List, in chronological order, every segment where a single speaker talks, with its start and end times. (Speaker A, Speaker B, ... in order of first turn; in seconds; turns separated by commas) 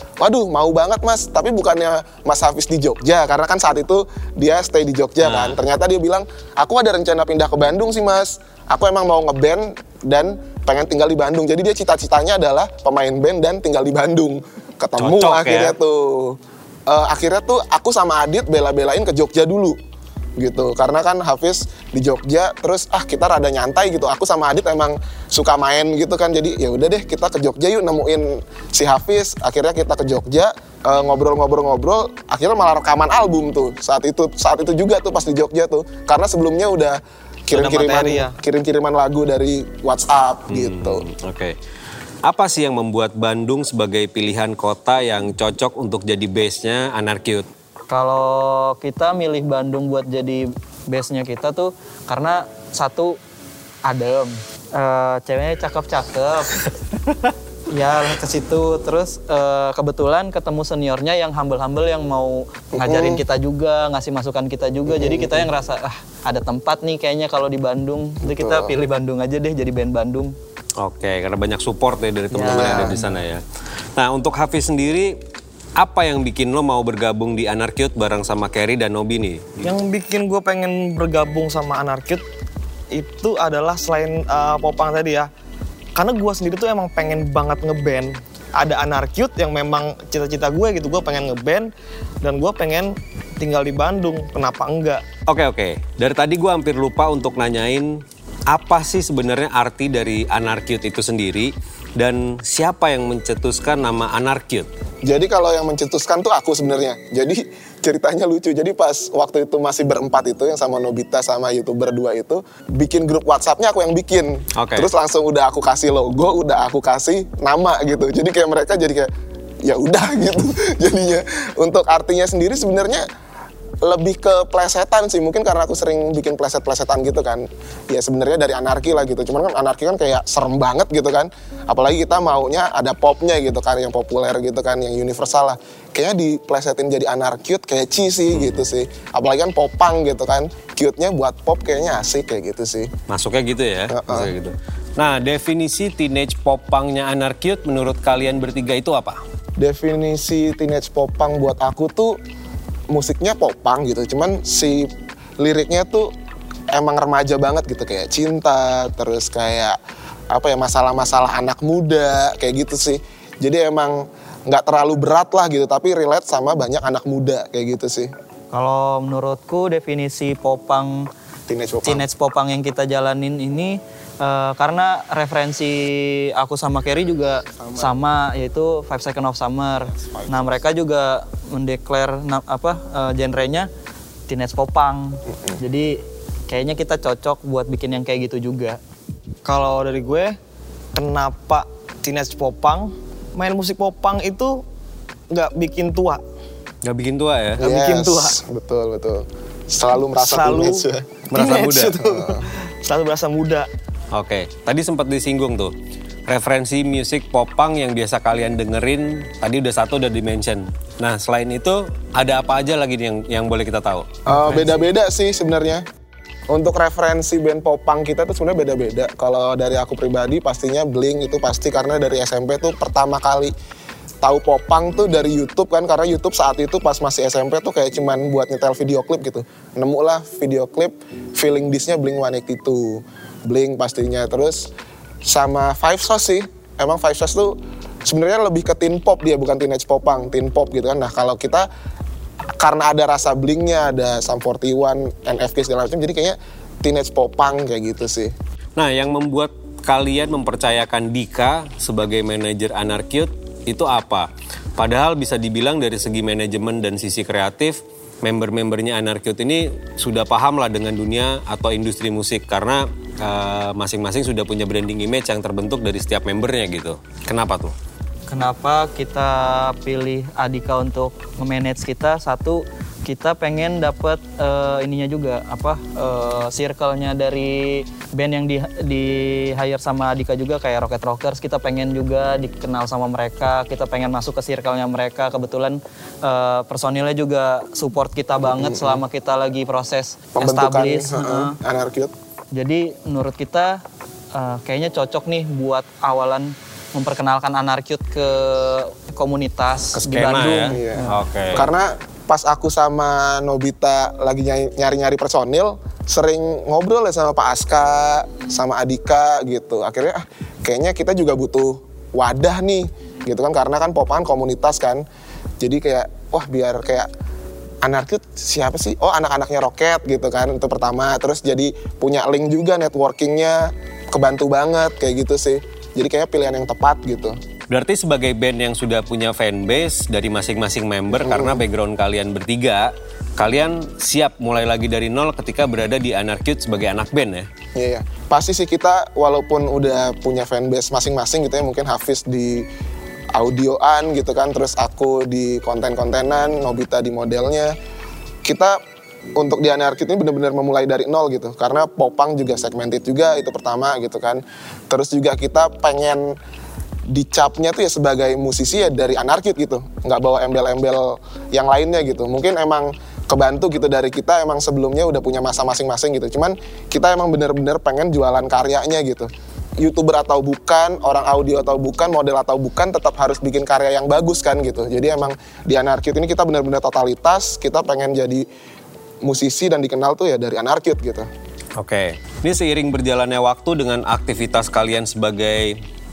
Speaker A: 0.2-16.4, Speaker B: 5.2-5.6, Speaker B: 15.0-15.8, Speaker A: 16.9-19.8, Speaker A: 20.4-41.0, Speaker C: 37.5-38.3, Speaker B: 40.5-41.5, Speaker B: 42.2-47.5, Speaker D: 47.9-53.2, Speaker D: 53.8-56.6, Speaker D: 57.7-70.3, Speaker A: 62.7-63.2, Speaker A: 64.9-65.5, Speaker A: 68.2-68.7, Speaker B: 70.8-73.4, Speaker D: 72.3-73.2, Speaker A: 72.4-72.9, Speaker B: 74.0-75.1, Speaker B: 75.8-79.8, Speaker C: 79.6-82.2, Speaker C: 82.9-85.3, Speaker C: 85.9-91.7, Speaker C: 92.2-95.0, Speaker B: 95.3-104.7, Speaker A: 105.0-119.1, Speaker B: 114.5-114.9, Speaker A: 119.6-123.0, Speaker A: 123.8-142.9, Speaker B: 138.3-138.6, Speaker B: 143.1-149.2, Speaker A: 143.9-144.3, Speaker A: 149.6-152.2, Speaker A: 152.9-156.1, Speaker A: 156.7-159.8, Speaker A: 160.3-168.1, Speaker D: 168.5-171.1, Speaker A: 171.5-172.1, Speaker D: 171.8-183.7, Speaker A: 177.5-177.9, Speaker A: 179.8-180.6, Speaker D: 184.3-188.8, Speaker C: 189.4-190.3, Speaker C: 190.9-194.6, Speaker C: 195.3-196.2, Speaker B: 196.8-197.7, Speaker A: 197.6-201.2, Speaker C: 197.6-198.3, Speaker C: 200.2-203.7, Speaker B: 201.3-202.0, Speaker A: 202.0-202.4, Speaker B: 204.1-205.7, Speaker B: 206.3-214.1, Speaker A: 214.3-215.8, Speaker D: 214.3-214.8, Speaker A: 216.5-223.5, Speaker A: 224.2-234.7, Speaker A: 235.2-237.5, Speaker A: 238.1-241.7, Speaker A: 242.6-248.3, Speaker B: 248.8-267.7, Speaker D: 268.3-291.6, Speaker A: 288.4-289.0, Speaker A: 290.3-292.1, Speaker D: 292.5-293.8, Speaker D: 294.3-301.1, Speaker B: 299.9-301.7, Speaker A: 300.7-315.0, Speaker A: 315.6-317.1, Speaker A: 317.8-327.4, Speaker B: 327.7-337.5, Speaker A: 331.1-331.6, Speaker A: 337.7-342.6, Speaker A: 343.3-347.7, Speaker A: 348.4-348.8, Speaker A: 349.4-356.4, Speaker A: 357.1-369.3, Speaker A: 369.8-378.4, Speaker A: 379.2-381.3, Speaker B: 381.8-385.7